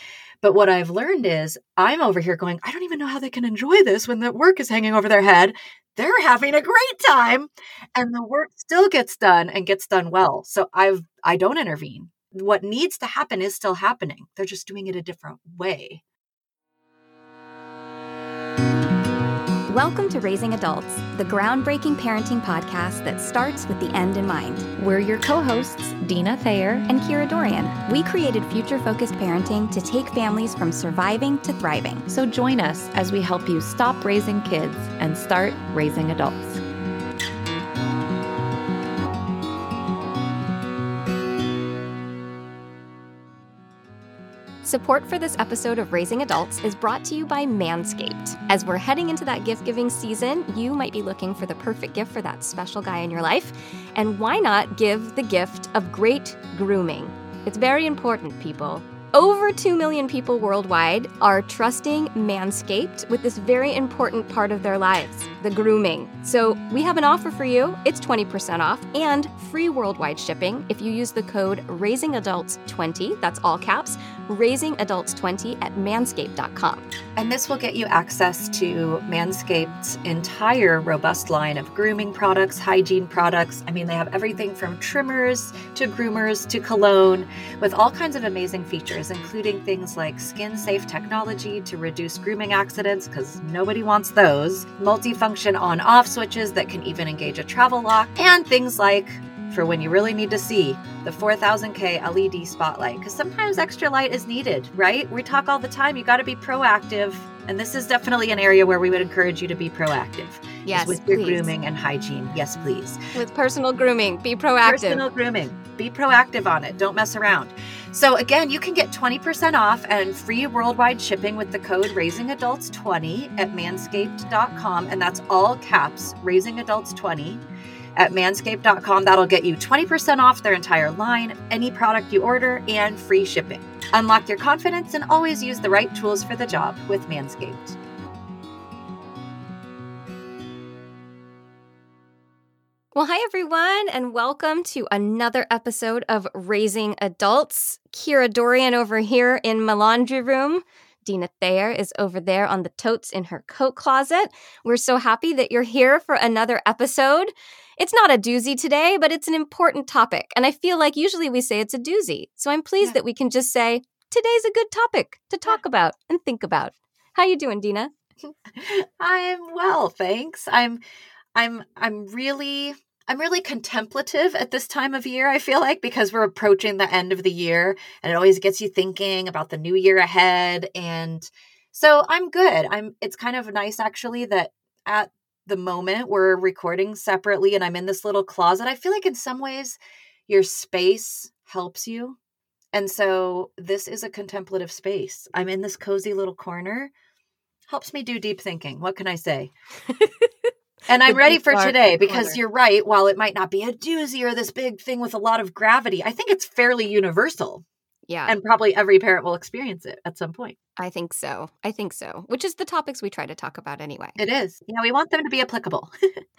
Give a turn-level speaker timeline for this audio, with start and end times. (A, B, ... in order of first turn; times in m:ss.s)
0:00.4-0:16.0 A
0:19.7-0:24.8 B
0:24.8-0:26.9 C
0:26.8-0:32.1 B
0:32.0-0:36.6 C
0:44.6-1:16.9 B
1:17.2-1:53.0 A
1:50.6-1:51.5 B
1:53.1-1:55.0 B
1:54.6-2:07.4 A
2:08.0-2:17.8 A
2:22.9-2:47.9 B
2:48.6-2:50.8 A
2:51.3-3:12.2 A
3:12.7-3:16.9 A
3:17.7-3:19.5 A
3:19.9-3:20.3 B
3:20.9-3:27.6 A
3:21.0-3:22.4 B
3:28.1-3:28.3 B
3:28.3-3:30.5 A
3:30.8-3:34.2 B
3:34.2-3:35.9 A